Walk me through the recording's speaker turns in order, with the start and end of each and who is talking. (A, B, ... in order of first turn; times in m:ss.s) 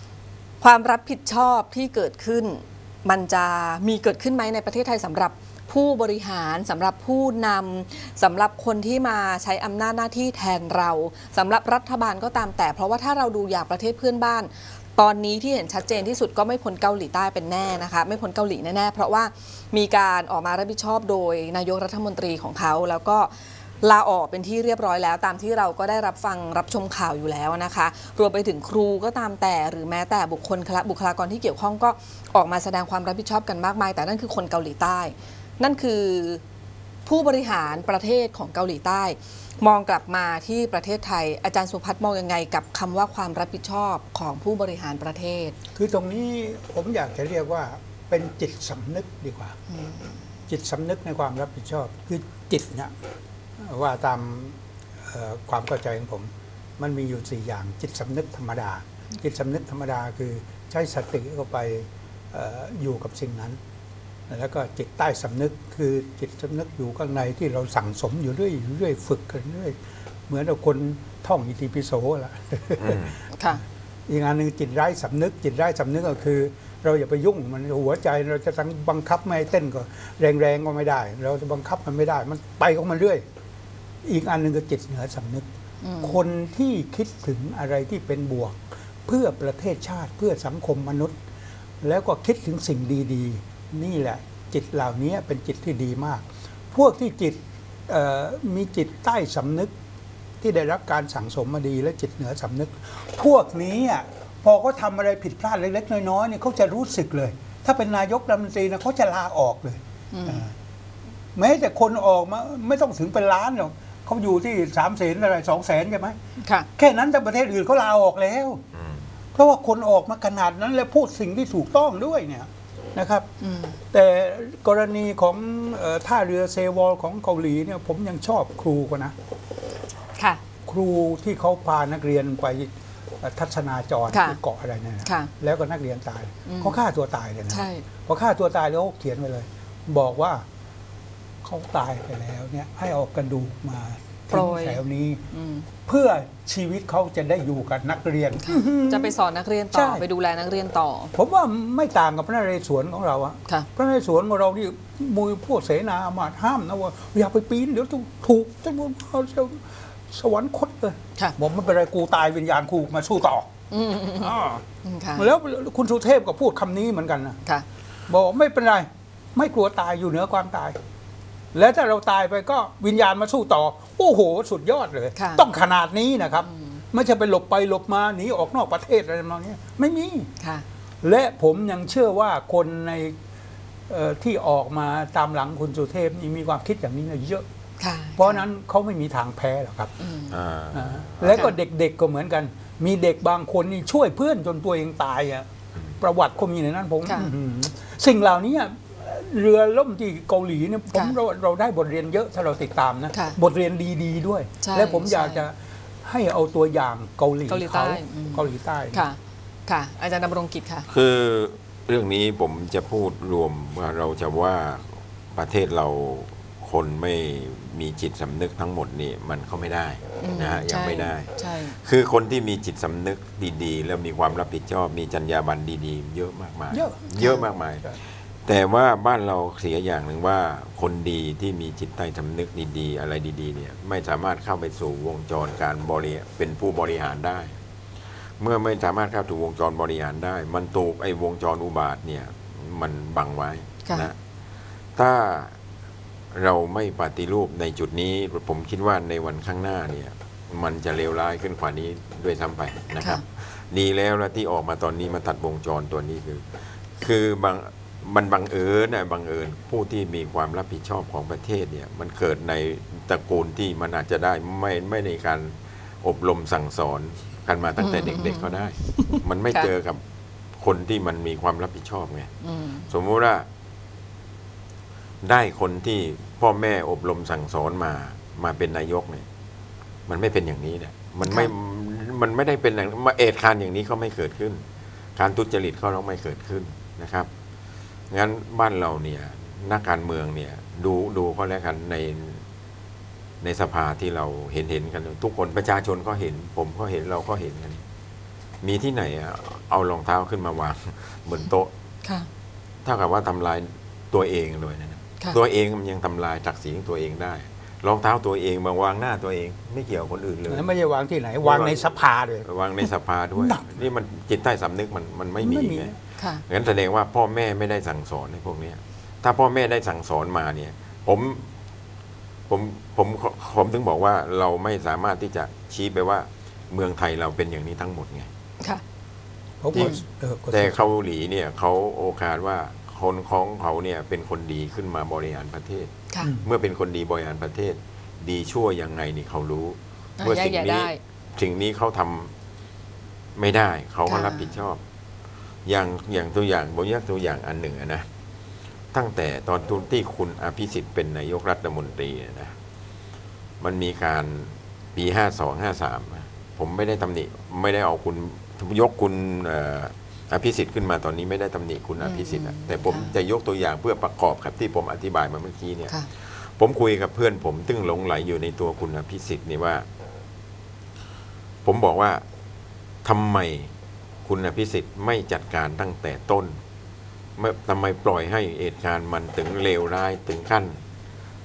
0:00.6-0:36.4 A
0:37.1-0:45.6 A
0:45.8-0:49.6 B
0:49.7-0:50.2 A
0:50.5-0:52.9 B
0:53.6-1:03.6 B
1:04.3-1:13.0 B
1:12.8-1:13.2 C
1:13.3-1:13.6 A
1:14.1-1:23.2 B
1:24.0-1:25.5 B
1:25.8-1:26.2 A
1:26.0-1:31.1 B
1:31.8-1:39.7 B
1:40.4-1:50.5 B
1:50.1-1:50.4 A
1:51.4-1:56.2 B
1:56.4-1:56.7 A
1:56.8-1:58.6 B
1:59.4-2:03.3 B
2:03.4-2:03.8 A
2:03.9-2:09.2 B
2:10.7-2:20.4 B
2:14.1-2:14.4 A
2:15.0-2:15.3 A
2:16.5-2:16.8 A
2:17.5-2:17.8 A
2:21.4-2:25.2 B
2:24.3-2:24.8 A
2:25.3-2:25.7 A
2:25.9-2:29.2 B
2:28.4-2:31.1 A
2:29.7-2:30.0 B
2:31.2-2:43.5 B
2:43.7-2:44.3 A
2:44.2-2:44.6 B
2:44.8-2:45.3 A
2:45.1-2:47.4 B
2:48.1-2:50.8 B
2:51.5-3:00.3 B
2:55.2-2:55.4 A
2:56.4-2:56.8 A
3:00.4-3:00.6 A
3:01.0-3:03.2 B
3:03.9-3:07.4 B
3:07.8-3:08.4 A
3:08.2-3:09.9 B
3:10.0-3:10.4 A
3:10.3-3:11.5 C
3:10.7-3:15.4 B
3:11.2-3:11.5 A
3:16.0-3:29.0 B
3:17.1-3:17.3 A
3:24.6-3:25.4 A
3:27.5-3:30.9 A
3:30.9-3:47.8 C
3:40.2-3:41.8 A
3:46.7-3:47.1 B
3:47.2-3:47.4 A
3:48.5-3:57.6 C
3:58.4-4:04.2 C
4:05.0-4:05.5 C
4:06.3-4:30.0 C
4:12.9-4:13.2 A
4:27.8-4:29.7 A
4:30.6-4:32.3 C
4:32.4-4:32.9 A
4:32.9-4:33.5 C
4:35.2-4:39.2 C
4:40.1-4:44.6 C
4:41.2-4:41.5 A
4:45.2-4:47.3 C
4:48.1-4:52.4 C
4:53.4-4:57.8 C
4:58.6-5:01.7 C
5:02.8-5:10.7 C
5:10.5-5:12.5 B
5:11.4-5:15.9 C
5:13.4-5:13.8 B
5:15.4-5:16.0 B
5:16.2-5:16.4 A
5:16.5-5:21.5 C
5:22.5-5:28.3 C
5:29.6-5:30.9 B
5:30.5-5:35.9 C
5:36.2-5:36.4 B
5:36.4-5:42.3 C
5:40.2-5:41.0 A
5:43.4-5:44.8 C
5:44.1-5:44.6 A
5:45.7-5:48.1 C
5:48.9-5:52.6 C
5:53.6-6:09.9 C
6:02.0-6:03.1 A
6:11.6-6:12.2 C
6:13.0-6:13.7 C
6:14.3-6:16.6 C
6:17.4-6:20.8 C